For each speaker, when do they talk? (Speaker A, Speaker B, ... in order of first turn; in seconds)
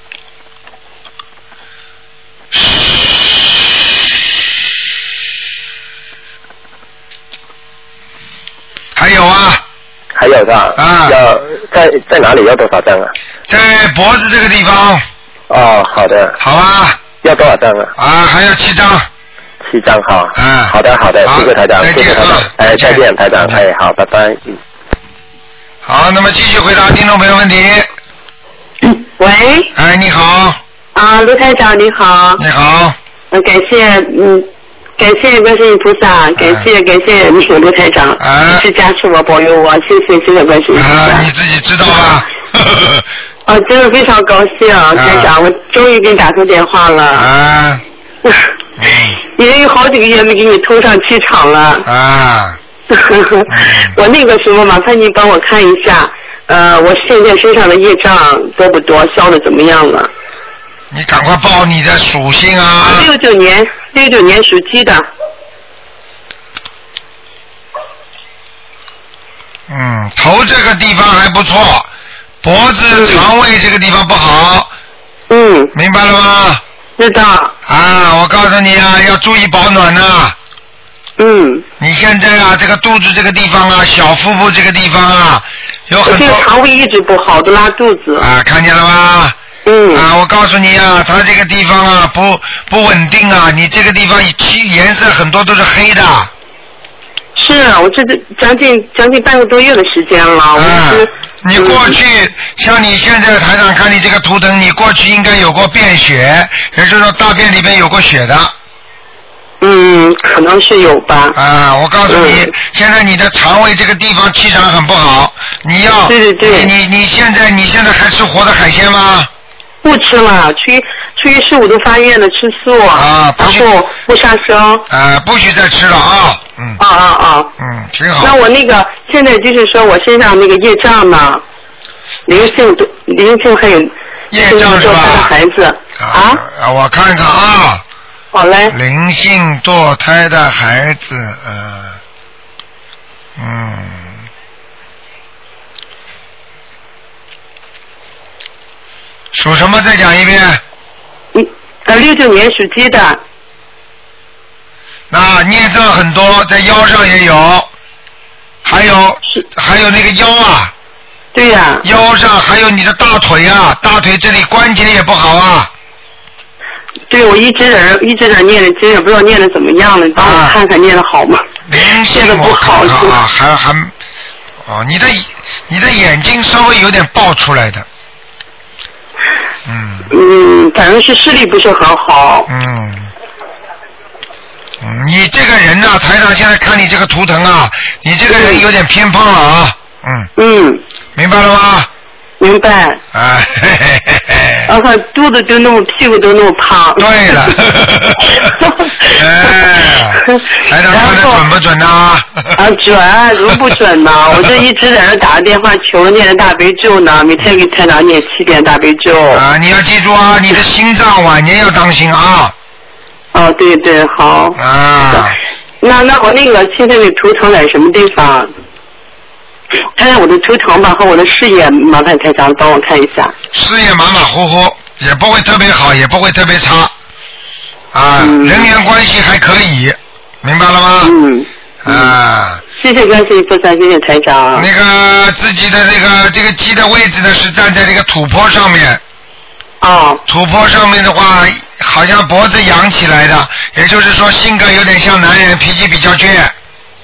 Speaker A: 8.9-9.6, 10.7-11.2, 13.5-15.0, 16.4-17.0, 17.9-19.1, 20.3-23.6, 25.8-27.9, 29.7-30.6, 32.4-33.0, 36.4-36.6, 38.2-38.6, 40.7-43.0, 44.9-45.3, 47.1-47.8, 48.8-49.2, 51.8-52.6, 53.5-53.9, 60.9-63.1, 69.7-71.9, 72.4-74.7, 75.7-76.6, 77.7-80.3, 81.8-86.5, 88.2-89.3, 89.9-96.3, 100.5-108.5, 111.3-119.3, 122.9-123.7, 124.9-126.8, 127.6-128.4, 134.3-135.3, 136.0-137.8, 138.7-142.0, 143.4-144.2, 149.3-150.6, 155.1-157.7, 158.6-160.7, 161.8-165.7, 170.2-170.6, 171.7-173.9, 174.6-177.8, 179.7-180.1, 182.5-183.1, 184.8-190.3, 191.2-191.9, 193.1-194.7, 197.0-198.5, 199.1-202.5, 209.3-212.5, 214.6-215.4, 223.5-226.9, 227.9-231.1, 231.8-232.6, 234.5-239.0, 240.2-246.5
Speaker B: 10.1-13.1, 15.5-16.4, 17.2-17.9, 19.6-24.6
Speaker C: 28.8-29.7, 30.9-32.4, 33.3-34.5, 35.0-41.3, 43.5-47.3, 49.2-51.9, 52.9-60.1, 62.8-65.0, 72.9-73.2, 75.3-75.7, 77.0-77.5, 81.2-81.6, 86.0-88.3, 89.7-90.1, 97.3-102.0, 109.6-111.4, 112.1-112.5, 116.1-116.7, 119.8-124.8, 126.8-127.5, 128.2-131.4, 132.3-136.4, 138.3-138.7, 151.3-153.2, 161.3-161.8, 167.1-171.4, 172.1-173.2, 180.1-182.5, 188.3-188.6, 190.3-190.8, 192.4-193.0, 194.7-197.6, 198.4-199.2, 200.9-201.5, 202.6-209.4, 213.3-214.6, 215.1-218.5, 219.9-223.3, 228.2-228.7, 231.0-232.1, 232.8-234.7, 239.8-240.2